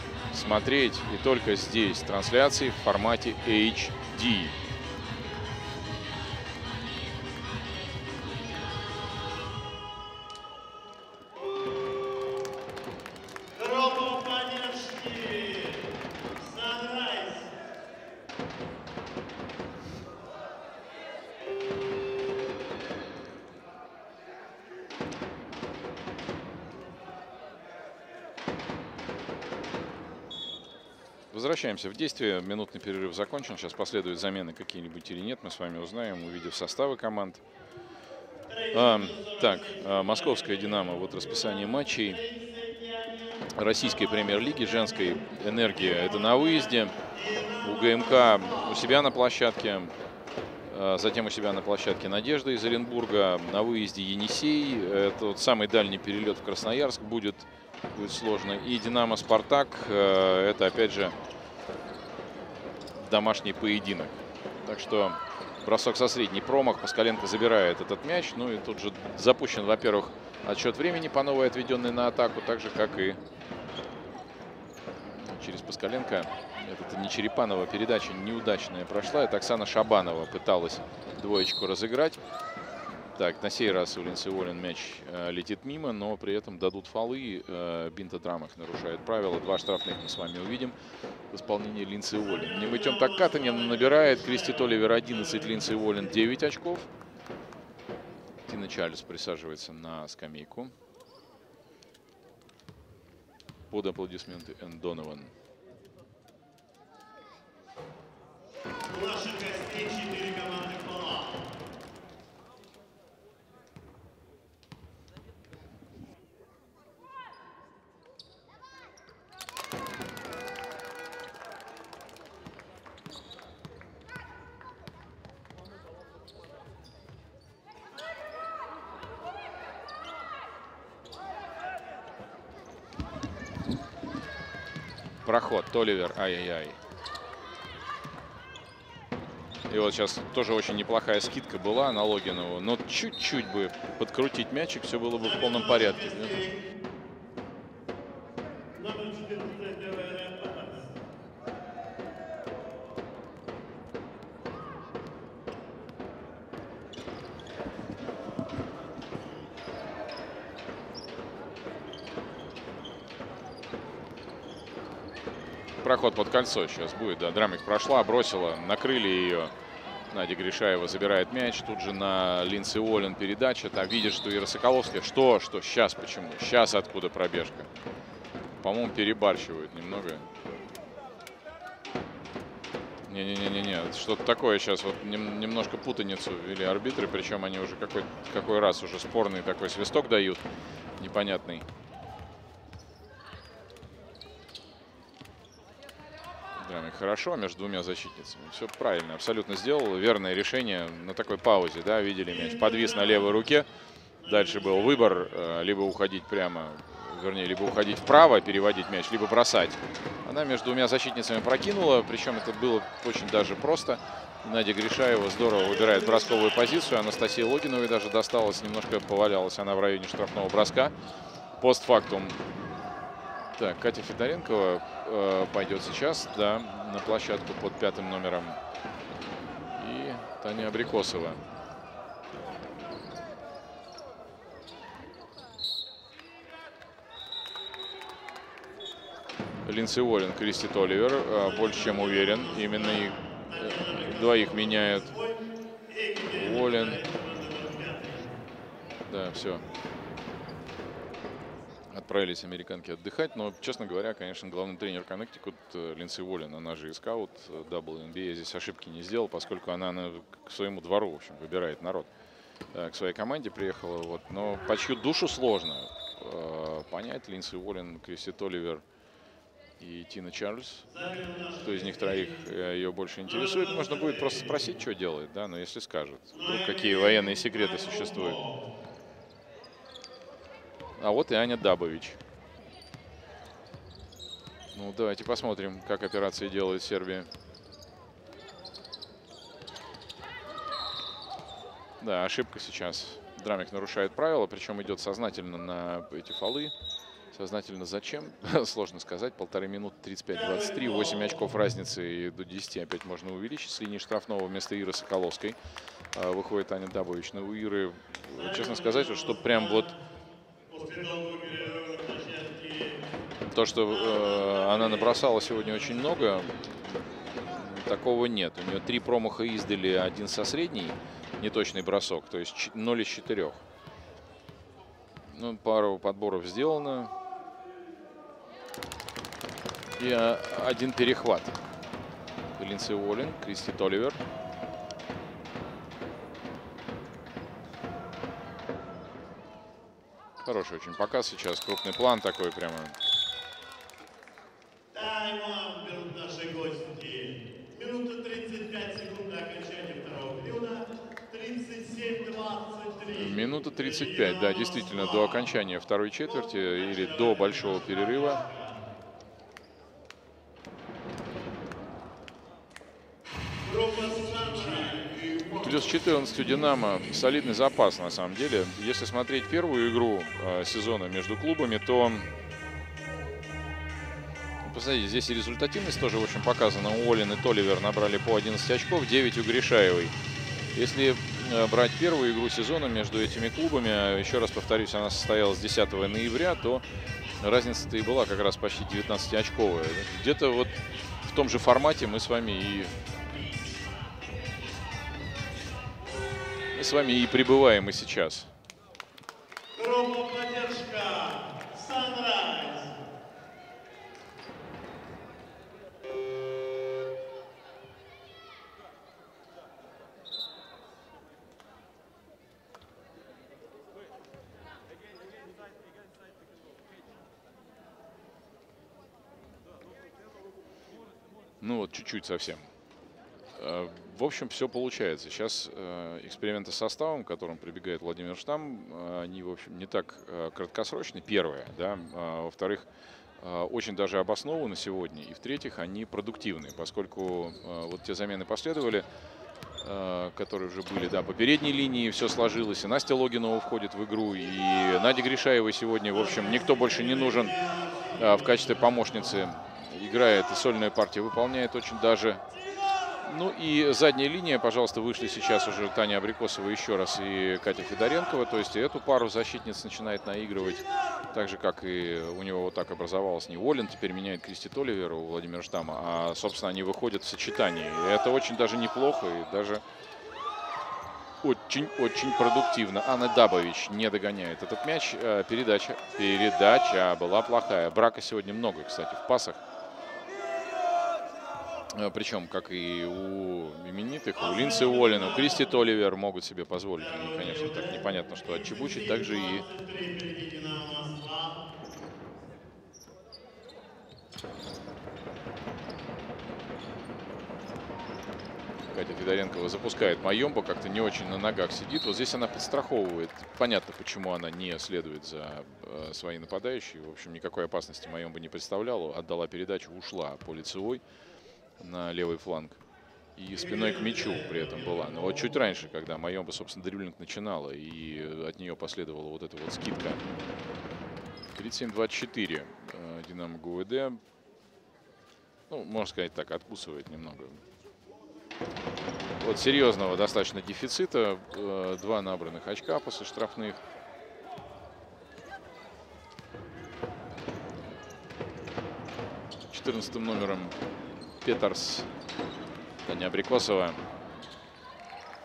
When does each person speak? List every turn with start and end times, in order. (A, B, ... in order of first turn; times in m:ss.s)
0:00.3-0:04.5 A
0:13.6-0:17.5 B
0:31.3-0:37.4 A
0:38.5-0:49.0 B
0:38.7-0:42.2 A
0:43.5-0:47.0 A
0:47.6-0:49.9 A
0:50.7-1:01.2 A
1:03.0-1:13.2 A
1:15.0-1:22.2 A
1:23.1-1:30.8 A
1:31.3-1:36.9 A
1:32.2-1:36.2 B
1:38.5-1:40.7 A
1:43.7-1:45.3 A
1:48.8-1:51.5 B
2:15.2-2:16.8 A
2:19.7-2:26.4 A
2:25.2-2:26.6 B
2:28.8-2:31.0 B
2:45.8-2:49.5 A
2:50.1-2:57.7 A
2:58.6-3:00.2 A
3:03.1-3:10.4 A
3:11.0-3:11.6 A
3:16.6-3:23.7 A
3:22.3-3:23.4 B
3:24.2-3:25.3 B
3:24.2-3:40.9 A
3:35.5-3:37.1 B
3:41.6-3:42.4 A
3:43.6-3:48.6 A
3:49.7-3:51.4 A
3:59.6-4:05.1 A
4:01.3-4:08.3 B
4:06.3-4:07.0 A
4:09.1-4:09.6 A
4:11.9-4:22.1 A
4:22.7-4:28.8 A
4:29.8-4:30.9 A
4:30.9-4:32.4 B
4:31.6-4:38.4 A
4:33.2-4:34.6 B
4:36.3-4:38.6 B
4:41.0-4:42.2 A
4:44.7-4:47.3 A
4:52.0-4:56.7 A
4:57.3-5:05.6 A
5:00.3-5:01.4 B
5:06.1-5:09.9 A
5:08.3-5:10.0 B
5:10.7-5:13.1 B
5:13.5-5:16.6 A
5:13.9-5:16.6 B
5:17.5-5:23.6 A
5:25.3-5:27.1 A
5:30.0-5:31.6 A
5:32.6-5:34.2 A
5:40.4-5:43.0 A
5:44.9-5:55.4 B
5:53.1-5:58.4 A
5:56.2-5:58.8 B
6:03.6-6:06.0 B
6:05.6-6:12.3 A
6:14.6-6:20.1 A
6:20.7-6:26.8 A
6:27.4-6:32.9 A
6:36.7-6:38.5 A
6:39.7-6:43.0 B
7:01.6-7:02.7 A
7:03.6-7:12.8 A
7:13.4-7:19.0 A
7:19.8-7:27.5 A
7:26.1-7:29.4 B
7:28.2-7:32.4 A
7:33.2-7:49.8 A
7:51.4-7:59.6 A
8:01.9-8:09.6 A
8:04.4-8:05.7 B
8:07.0-8:11.6 B
8:18.9-8:31.0 A
8:31.8-8:32.8 A
8:33.4-8:40.2 A
8:33.5-8:35.6 B
8:41.5-8:44.2 A
8:45.7-8:47.6 A
8:49.4-8:53.8 A
8:59.7-9:00.7 A
9:01.4-9:02.1 A
9:03.0-9:04.0 A